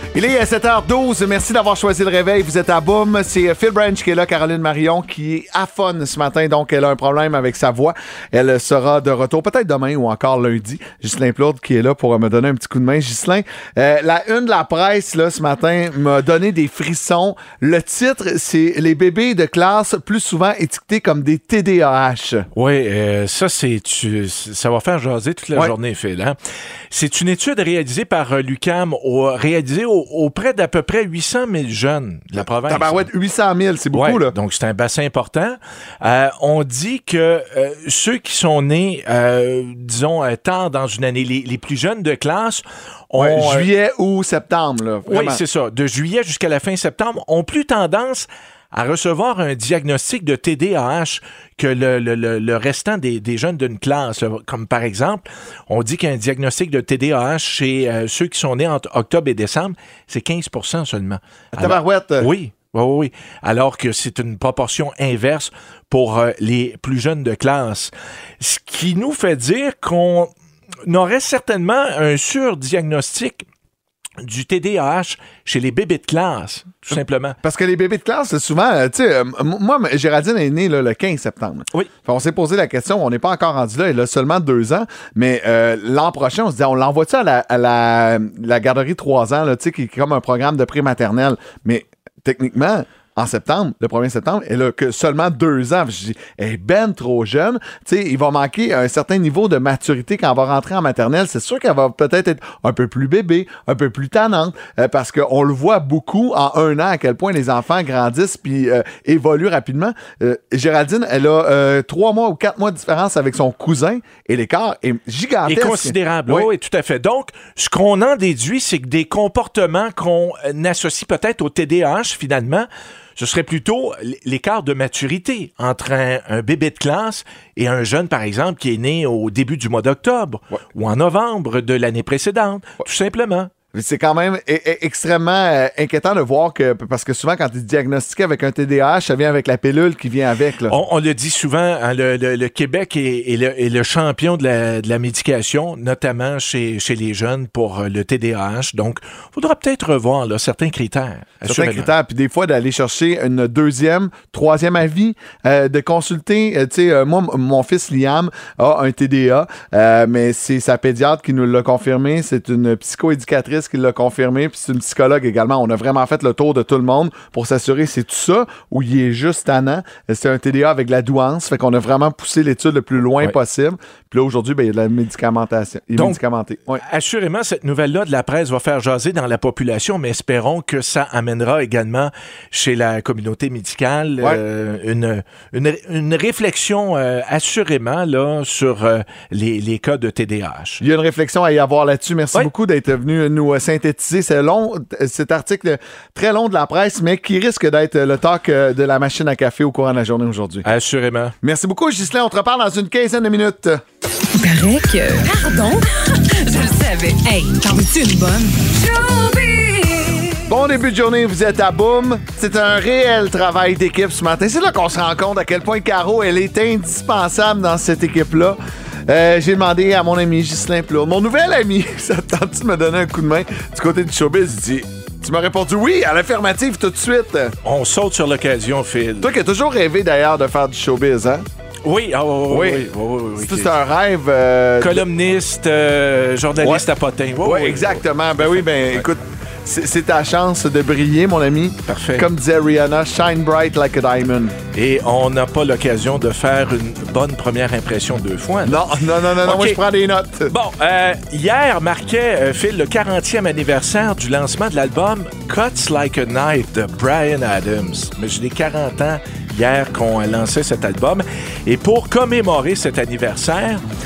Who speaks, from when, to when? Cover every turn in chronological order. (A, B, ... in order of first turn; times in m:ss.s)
0:00.1-0:22.5 A
0:22.6-0:26.4 B
0:26.9-0:33.1 B
0:32.7-0:34.3 A
0:33.9-0:43.7 B
0:43.2-0:45.4 A
0:45.1-1:10.3 B
1:01.5-1:02.3 A
1:10.9-1:13.4 B
1:14.2-1:17.4 B
1:16.9-1:56.5 A
1:55.5-2:13.5 B
2:13.7-2:20.8 A
2:20.7-2:31.9 B
2:31.4-2:56.8 A
2:56.7-3:10.8 B
3:10.8-3:20.6 A
3:20.6-3:21.4 B
3:21.4-3:23.8 A
3:24.3-3:30.4 C
3:30.5-3:47.6 A
3:47.6-3:49.3 B
3:49.2-3:51.5 A
3:51.8-3:53.8 B
3:52.5-3:55.0 A
3:54.8-3:59.0 B
3:57.4-4:04.6 A
4:01.9-4:02.3 B
4:04.7-4:08.9 B
4:08.6-4:10.5 A
4:09.4-4:09.8 B
4:10.5-4:23.8 B